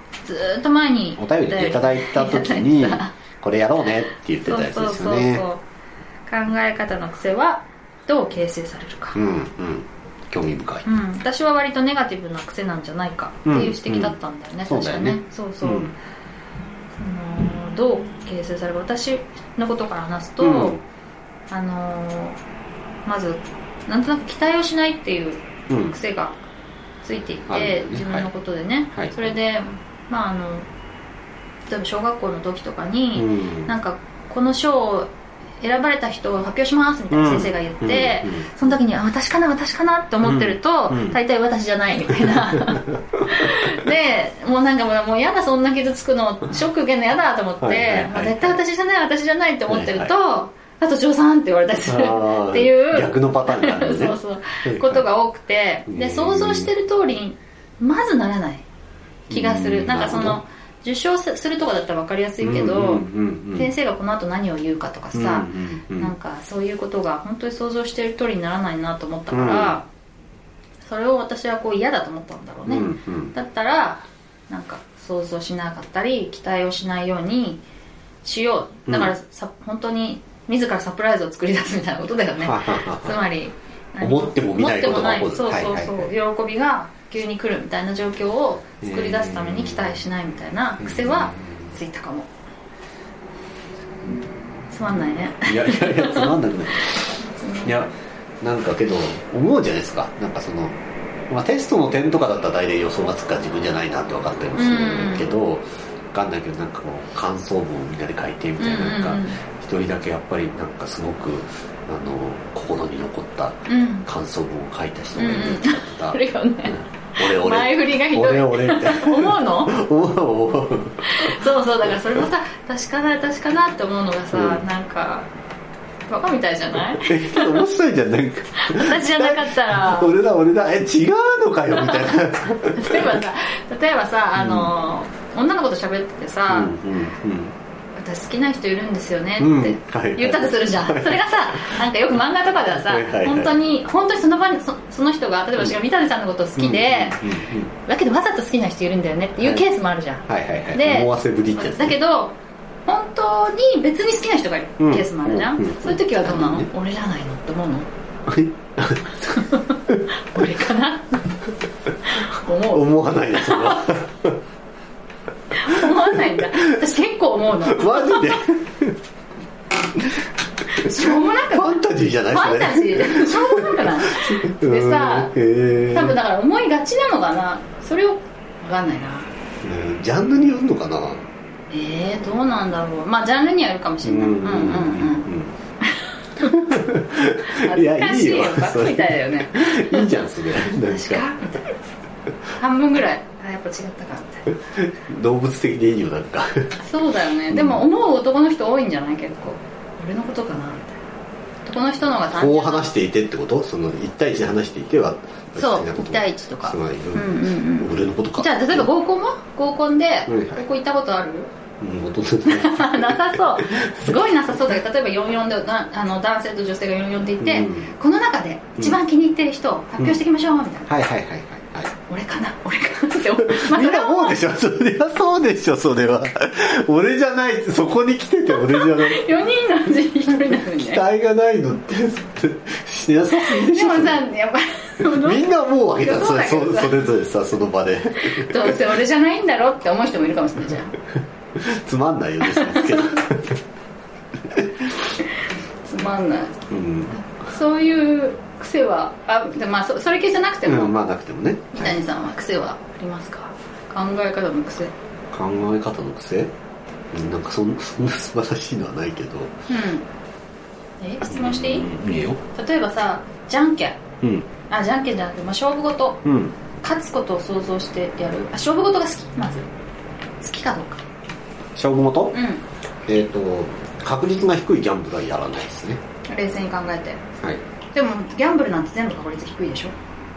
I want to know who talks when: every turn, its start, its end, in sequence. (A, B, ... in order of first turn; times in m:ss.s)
0:00.2-0:03.1 A
0:01.2-0:05.4 B
0:04.4-0:05.6 A
0:06.3-0:09.2 A
0:09.1-0:10.8 B
0:10.8-0:15.9 A
0:13.4-0:15.9 B
0:17.0-0:20.8 A
0:20.4-0:20.8 B
0:21.5-0:22.4 A
0:23.0-0:26.4 A
0:25.7-0:26.0 B
0:27.0-0:30.6 A
0:27.5-0:28.3 B
0:28.9-0:29.3 B
0:31.7-0:35.1 A
0:33.1-0:33.7 B
0:35.6-0:58.6 A
0:37.1-0:38.5 B
0:40.2-0:41.2 B
0:42.2-0:42.9 B
0:47.6-0:48.6 B
0:49.7-0:50.1 B
0:51.8-0:55.0 B
0:55.9-0:56.7 B
0:59.3-1:00.4 B
0:59.3-1:09.8 A
1:02.4-1:03.7 B
1:05.1-1:06.1 B
1:09.3-1:09.8 B
1:10.8-1:17.6 A
1:12.6-1:13.3 B
1:18.2-1:32.3 A
1:18.9-1:19.1 B
1:22.4-1:23.2 B
1:24.0-1:26.1 B
1:28.8-1:30.0 B
1:30.8-1:31.8 B
1:34.0-1:34.3 B
1:34.7-1:37.9 A
1:35.4-1:40.8 B
1:41.3-2:02.2 B
1:44.5-1:45.3 A
1:48.6-1:49.4 A
1:53.7-1:54.1 A
1:55.2-1:59.8 A
2:01.0-2:05.3 A
2:04.3-2:04.6 B
2:06.1-2:07.7 A
2:06.9-2:13.2 B
2:08.6-2:10.1 A
2:11.7-2:16.7 A
2:14.3-2:14.7 B
2:16.5-2:17.5 B
2:18.0-2:37.9 A
2:19.4-2:21.8 B
2:22.7-2:23.5 B
2:26.6-2:27.7 B
2:29.4-2:29.6 B
2:30.2-2:32.0 B
2:34.8-2:36.7 B
2:38.3-2:40.0 B
2:39.3-2:41.3 A
2:42.0-2:44.0 A
2:42.7-2:44.4 B
2:45.5-2:48.4 A
2:45.7-2:46.7 B
2:47.6-2:49.0 B
2:50.7-2:55.3 A
2:50.8-2:56.2 B
2:55.9-2:59.3 A
2:59.6-3:01.3 B
3:01.7-3:05.3 A
3:04.0-3:05.5 B
3:05.8-3:06.8 A
3:06.4-3:11.2 B
3:07.4-3:11.8 A
3:12.5-3:14.5 A
3:14.8-3:16.7 B
3:16.8-3:21.0 A
3:17.5-3:17.8 B
3:21.6-3:22.9 A
3:22.3-3:28.9 B
3:25.6-3:31.5 A
3:30.3-3:30.6 B
3:31.8-3:34.2 B
3:32.4-3:41.0 A
3:37.4-3:37.9 B
3:40.9-3:41.9 B
3:42.0-3:44.4 A
3:43.4-3:49.3 B
3:48.5-3:51.0 A
3:50.4-3:54.2 B
3:53.3-3:57.0 A
3:55.0-3:58.8 B
3:58.2-4:01.0 A
4:01.6-4:03.6 B
4:02.4-4:03.2 A
4:04.5-4:05.0 B
4:05.8-4:06.6 A
4:06.7-4:07.2 B
4:07.2-4:11.0 A
4:10.6-4:12.0 B
4:11.7-4:14.9 A
4:15.3-4:16.5 B
4:17.1-4:19.5 B
4:19.7-4:20.1 A
4:21.0-4:21.9 A
4:21.2-4:22.4 B
4:22.5-4:24.0 A
4:24.2-4:24.5 B
4:24.7-4:26.2 A
4:26.2-4:26.5 B
4:26.8-4:29.7 A
4:30.4-4:31.0 A
4:31.7-4:32.4 B
4:32.3-4:32.6 A
4:33.0-4:36.0 B
4:36.3-4:37.2 A
4:37.9-4:39.9 A